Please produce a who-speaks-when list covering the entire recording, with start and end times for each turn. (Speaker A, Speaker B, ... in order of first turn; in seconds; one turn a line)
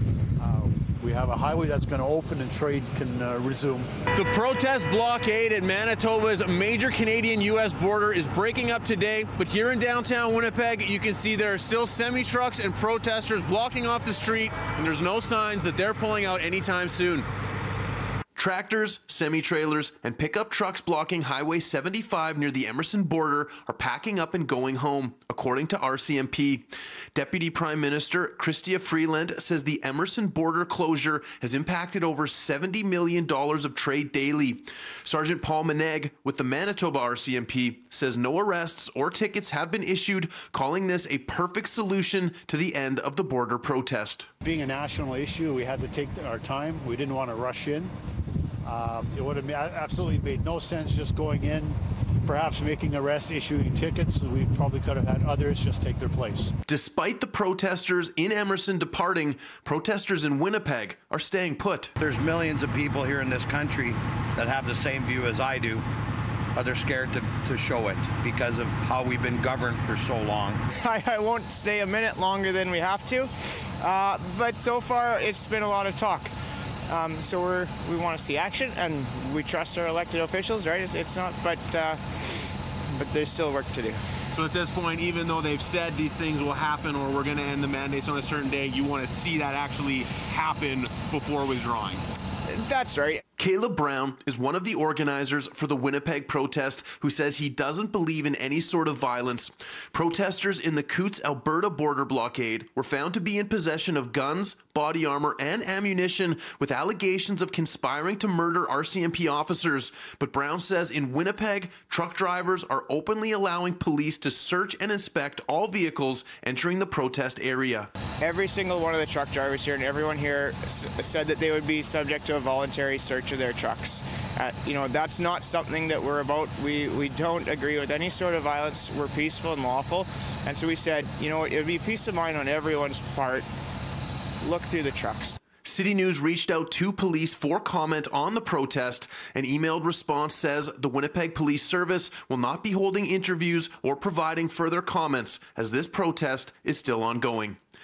Speaker A: 0.4-3.9
Speaker B: 4.1-17.2
Speaker B: 18.4-44.2
Speaker A: 44.4-47.9
Speaker A: 48.6-56.5
Speaker B: 56.7-61.9
Speaker C: 62.0-65.8
Speaker C: 66.5-70.6
Speaker D: 70.8-76.3
Speaker D: 76.9-84.0
Speaker B: 84.3-92.0
Speaker D: 92.5-93.2
Speaker B: 93.4-117.9
Speaker D: 118.2-133.4
Speaker D: 134.4-135.4
Speaker B: 135.6-147.6